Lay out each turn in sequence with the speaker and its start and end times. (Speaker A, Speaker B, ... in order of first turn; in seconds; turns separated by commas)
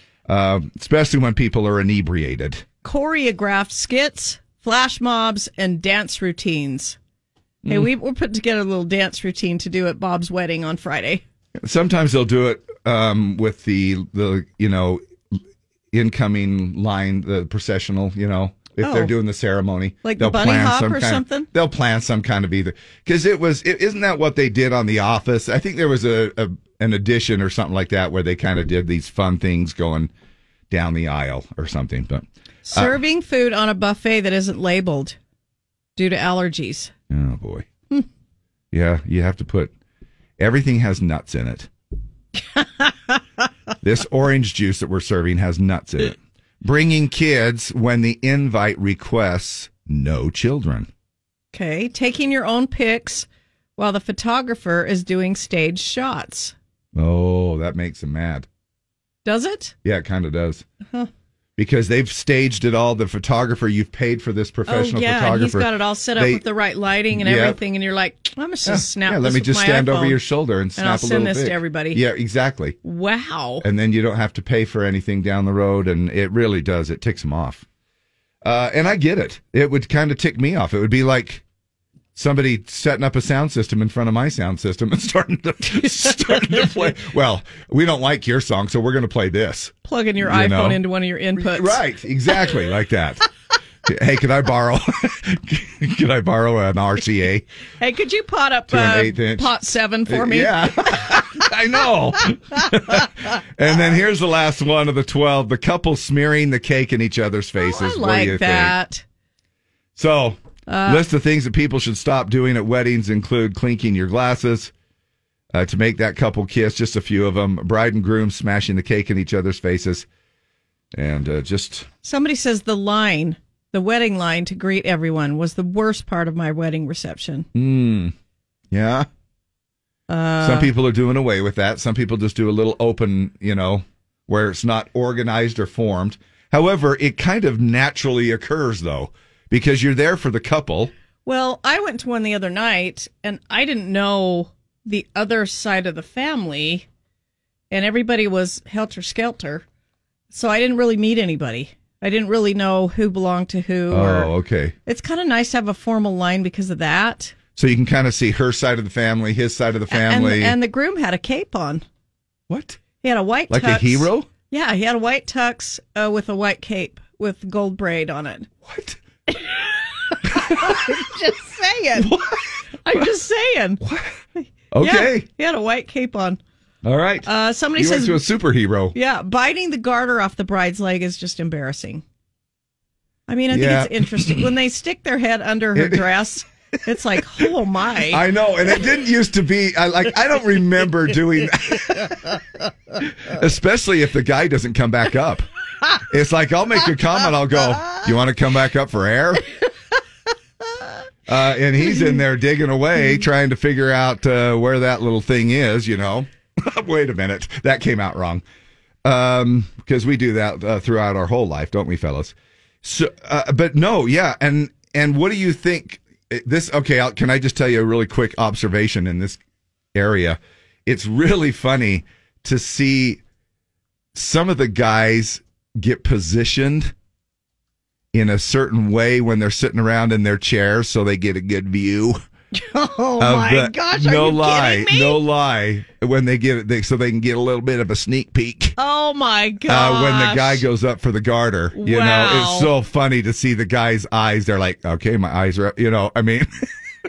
Speaker A: 0.3-2.6, Speaker B: 2.8-7.0, Speaker B: 7.7-11.2, Speaker A: 11.6-15.0, Speaker A: 15.9-30.1, Speaker B: 18.8-19.1, Speaker B: 20.0-21.5, Speaker A: 30.7-33.0, Speaker B: 32.7-35.2, Speaker B: 36.0-36.9, Speaker A: 37.1-37.7, Speaker A: 38.7-39.7, Speaker A: 40.4-41.7, Speaker A: 43.8-50.9, Speaker B: 51.5-56.5, Speaker A: 56.9-58.5, Speaker B: 59.2-59.7, Speaker A: 59.8-60.6, Speaker A: 61.6-66.4, Speaker B: 64.7-70.2, Speaker A: 67.1-67.6, Speaker A: 68.7-72.8, Speaker B: 70.8-72.0, Speaker B: 72.8-73.6, Speaker A: 73.6-77.6, Speaker A: 78.4-81.4, Speaker A: 82.1-90.8, Speaker B: 89.8-91.8, Speaker A: 91.3-93.2, Speaker A: 93.8-97.4, Speaker B: 97.8-100.6, Speaker A: 98.7-99.5, Speaker A: 100.1-108.8, Speaker B: 107.6-109.0, Speaker A: 110.0-114.7, Speaker B: 110.7-111.0, Speaker A: 115.5-120.0, Speaker A: 120.9-121.9, Speaker B: 122.0-127.5, Speaker A: 127.5-128.1, Speaker A: 128.7-129.1, Speaker B: 130.1-130.7, Speaker A: 130.4-140.9, Speaker B: 141.2-146.8, Speaker B: 147.7-149.6, Speaker B: 150.3-154.3, Speaker A: 153.9-154.7, Speaker B: 154.8-157.3, Speaker A: 157.6-160.6, Speaker B: 159.9-161.8, Speaker A: 162.5-162.8, Speaker B: 163.0-168.5, Speaker A: 163.5-164.3, Speaker A: 168.6-169.0, Speaker B: 170.2-172.1, Speaker A: 171.9-172.5, Speaker B: 172.8-173.8, Speaker A: 173.8-174.2, Speaker B: 174.4-176.4, Speaker A: 174.7-175.2, Speaker A: 176.8-178.9, Speaker B: 177.2-178.2, Speaker B: 178.9-182.0, Speaker B: 183.3-188.2, Speaker A: 183.5-184.5, Speaker A: 185.7-186.0, Speaker A: 188.1-192.3, Speaker A: 193.0-195.4, Speaker A: 196.1-199.4, Speaker A: 201.3-208.4, Speaker A: 209.0-219.4, Speaker A: 219.9-223.2, Speaker A: 224.1-226.9, Speaker A: 228.1-232.2, Speaker B: 232.5-235.2, Speaker A: 233.2-238.8, Speaker B: 238.8-240.6, Speaker A: 239.7-246.5, Speaker B: 241.8-242.7